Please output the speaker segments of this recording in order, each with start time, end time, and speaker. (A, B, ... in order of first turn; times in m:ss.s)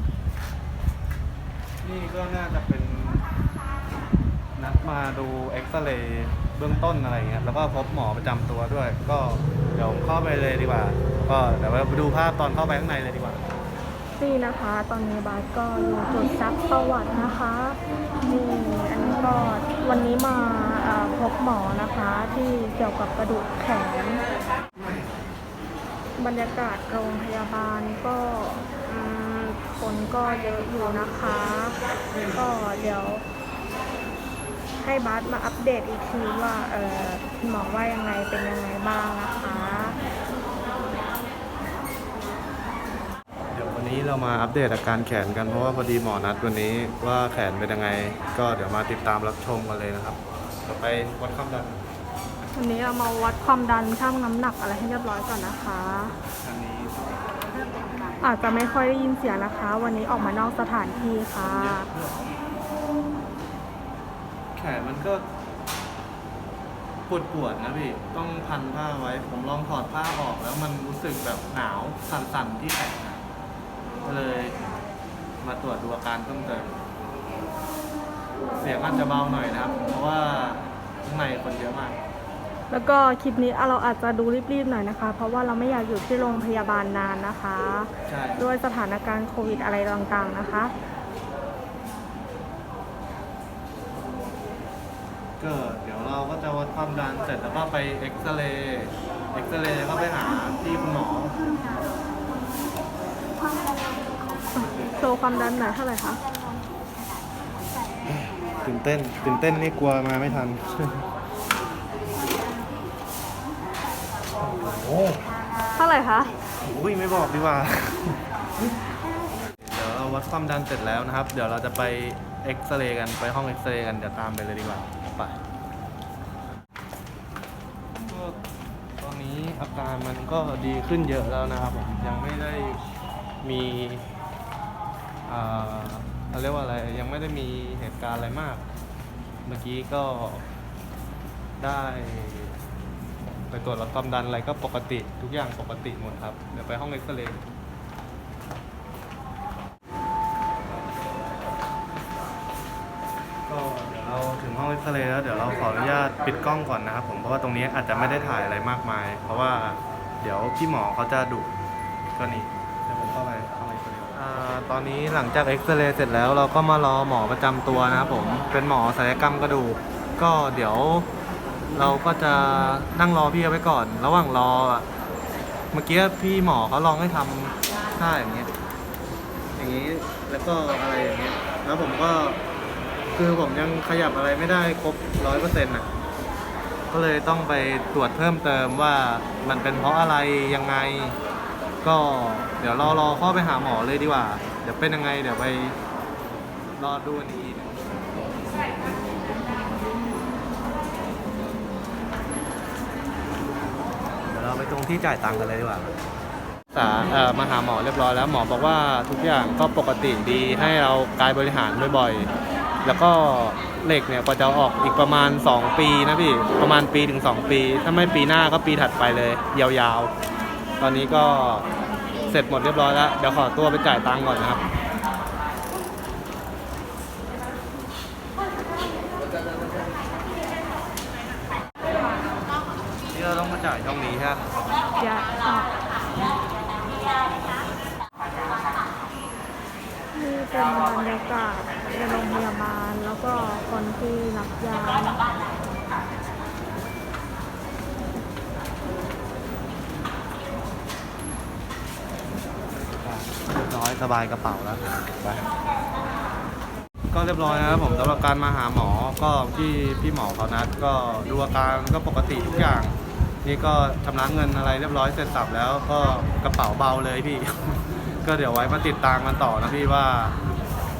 0:01.8-0:03.2 A
0:04.6-0:13.4 A
0:14.2-0:24.2 B
0:26.2-0:33.2 B
0:34.8-0:40.0 B
0:43.5-0:51.8 A
0:52.5-0:56.2 B
0:56.4-0:57.3 A
0:58.2-1:01.9 B
1:01.4-1:02.4 A
1:04.5-1:05.2 A
1:07.1-1:13.2 A
1:14.0-1:14.6 A
1:15.4-1:16.8 A
1:18.5-1:22.0 A
1:22.7-1:30.7 B
1:28.1-1:28.4 A
1:35.4-1:41.4 A
1:44.5-1:46.2 B
1:48.1-1:51.0 A
1:54.4-1:55.2 A
1:55.7-1:56.3 B
1:56.6-1:58.2 A
1:59.6-2:05.4 A
2:08.1-2:08.4 A
2:09.0-2:12.8 A
2:13.4-2:14.2 A
2:15.3-2:18.6 A
2:19.4-2:20.4 A
2:21.6-2:22.5 A
2:23.5-2:27.4 A
2:33.5-2:41.5 A
2:42.2-2:51.1 A
2:51.7-2:54.9 A
2:55.7-2:58.5 A
2:59.6-3:02.4 A
3:03.1-3:05.9 A
3:06.9-3:11.2 A
3:11.8-3:15.8 A
3:16.8-3:17.8 A
3:24.3-3:25.9 A
3:26.7-3:32.3 A
3:32.8-3:40.1 A
3:40.8-3:41.7 A
3:42.2-3:44.6 A
3:53.1-3:54.5 A
3:55.0-3:55.7 B
4:00.1-4:05.2 B
4:12.9-4:15.5 A
4:17.1-4:30.4 A